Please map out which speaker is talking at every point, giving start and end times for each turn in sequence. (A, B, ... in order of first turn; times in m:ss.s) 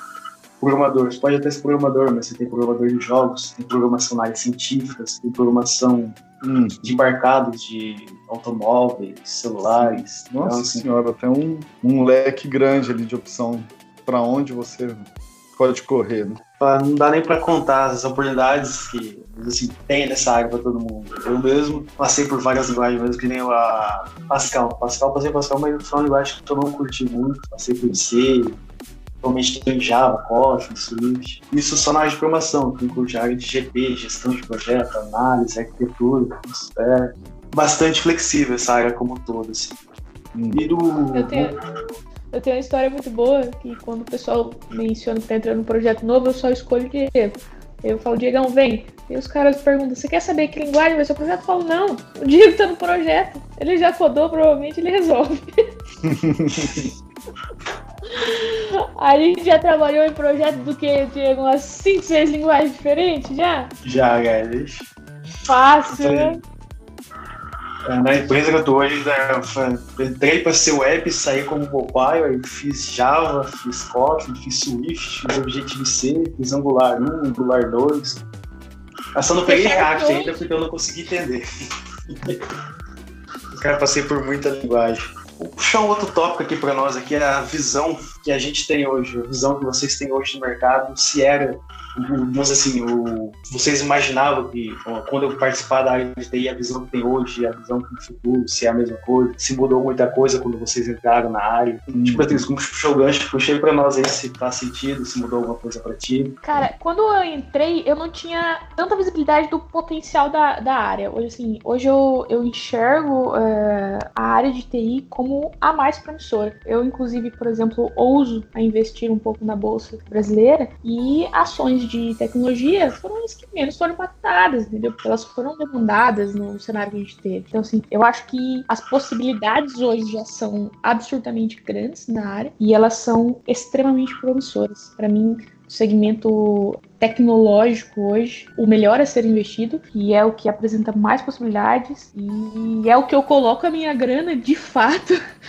0:00.6-0:06.2 A
0:06.4-0:06.9 B
0:06.8-0:10.9 A
0:09.8-0:15.0 B
0:15.6-0:16.4 B
0:16.6-0:28.6 A
0:29.2-0:39.8 A
0:40.4-0:40.6 B
0:40.5-0:41.5 A
0:41.2-0:41.6 C
0:42.3-0:55.5 C
0:56.0-0:56.9 B
0:58.2-1:03.7 C
1:03.8-1:04.9 A
1:05.5-1:06.4 C
1:05.9-1:06.4 A
1:07.9-1:18.2 A
1:19.2-1:21.4 A
1:19.5-1:20.5 C
1:22.1-1:22.4 A
1:23.6-1:46.4 A
1:41.9-1:42.4 B
1:46.4-2:25.2 C